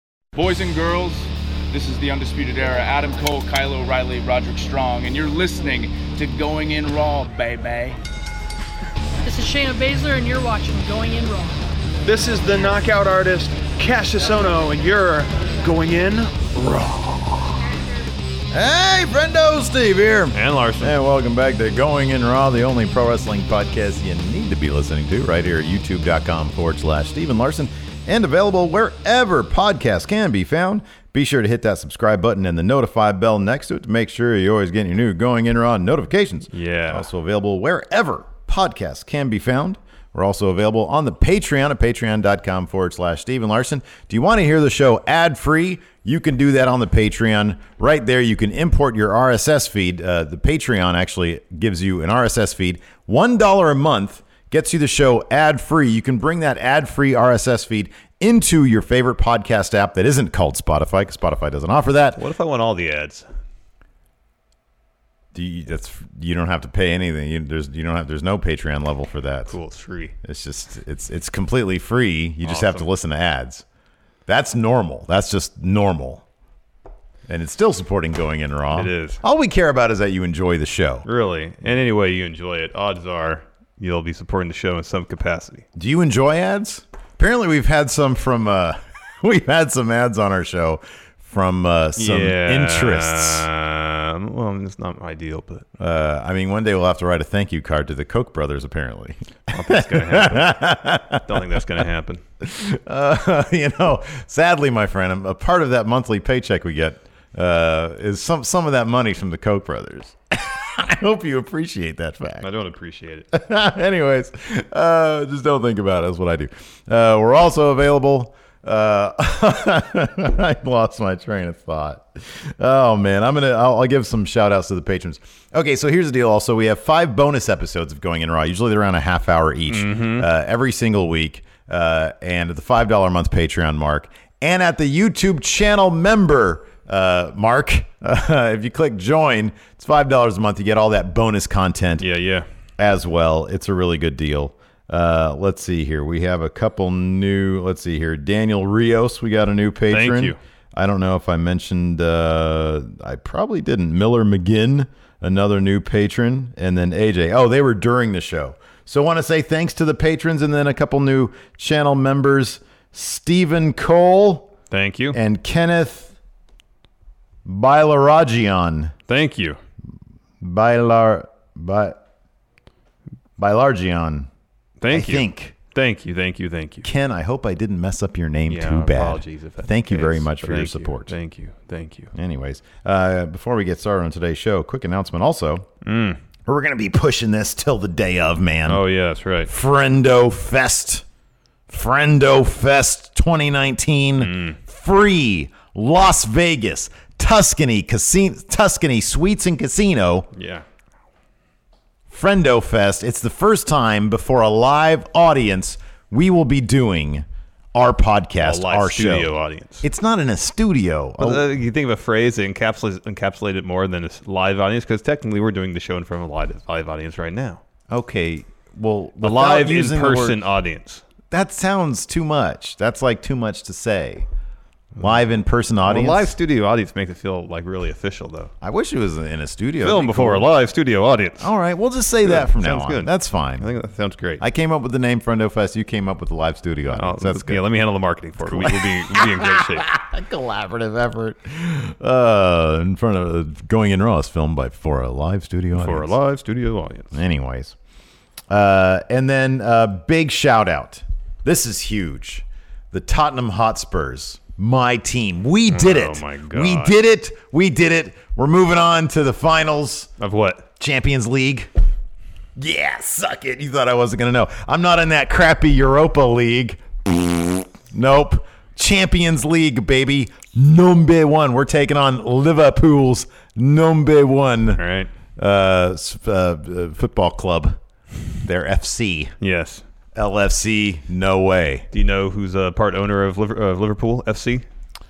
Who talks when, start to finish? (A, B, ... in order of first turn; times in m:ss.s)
0:00.3-0:08.0 A
0:09.2-0:11.6 B
0:12.0-0:16.4 C
0:16.5-0:17.4 D
0:18.5-1:02.2 D
0:20.3-0:20.9 E
0:36.5-0:37.1 E
1:02.2-1:03.3 E
1:05.3-1:09.5 D
1:09.5-1:10.2 E
1:10.2-1:13.6 D
1:12.4-1:12.9 E
1:14.3-1:16.2 D
1:17.3-1:21.0 D
1:18.7-1:19.2 E
1:21.0-1:25.6 E
1:25.7-1:33.5 D
1:32.0-1:35.7 E
1:35.8-1:41.6 D
1:39.5-1:42.2 E
1:42.4-1:52.5 D
1:52.4-1:53.3 E
1:53.3-2:22.1 D
2:09.7-2:10.3 E
2:22.0-2:22.5 E
2:22.8-2:44.5 D
2:29.9-2:30.4 E
2:44.7-2:45.2 E
2:45.1-2:46.1 D
2:47.4-2:48.9 D
2:49.1-2:49.6 E
2:50.4-2:52.0 D
2:53.4-2:54.3 D
2:54.8-2:56.9 E
2:54.9-2:55.5 D
2:56.8-3:01.1 D
2:58.5-3:02.1 E
3:02.1-3:05.7 D
3:05.8-3:06.2 E
3:06.4-3:08.8 D
3:08.6-3:09.5 E
3:09.4-3:11.0 D
3:11.7-3:20.3 D
3:14.2-3:14.6 E
3:20.3-3:20.6 E
3:22.1-3:31.5 D
3:28.4-3:29.9 E
3:31.2-3:37.6 E
3:37.9-3:40.4 D
3:39.2-3:41.0 E
3:41.3-3:44.3 D
3:45.0-3:46.3 D
3:45.8-3:48.5 E
3:48.6-3:50.4 D
3:49.8-3:51.5 E
3:51.4-3:53.7 D
3:52.2-3:54.4 E
3:54.4-3:57.6 D
3:56.9-3:59.8 E
3:58.4-4:06.1 D
4:05.7-4:07.2 E
4:07.1-4:07.7 D
4:08.5-4:20.1 D
4:15.7-4:16.9 E
4:20.2-4:20.6 E
4:20.8-4:21.7 D
4:22.6-4:34.8 D
4:34.8-4:35.1 E
4:35.4-4:37.8 D
4:38.4-4:39.3 D
4:39.4-4:39.8 E
4:40.1-4:41.9 D
4:41.9-4:44.6 E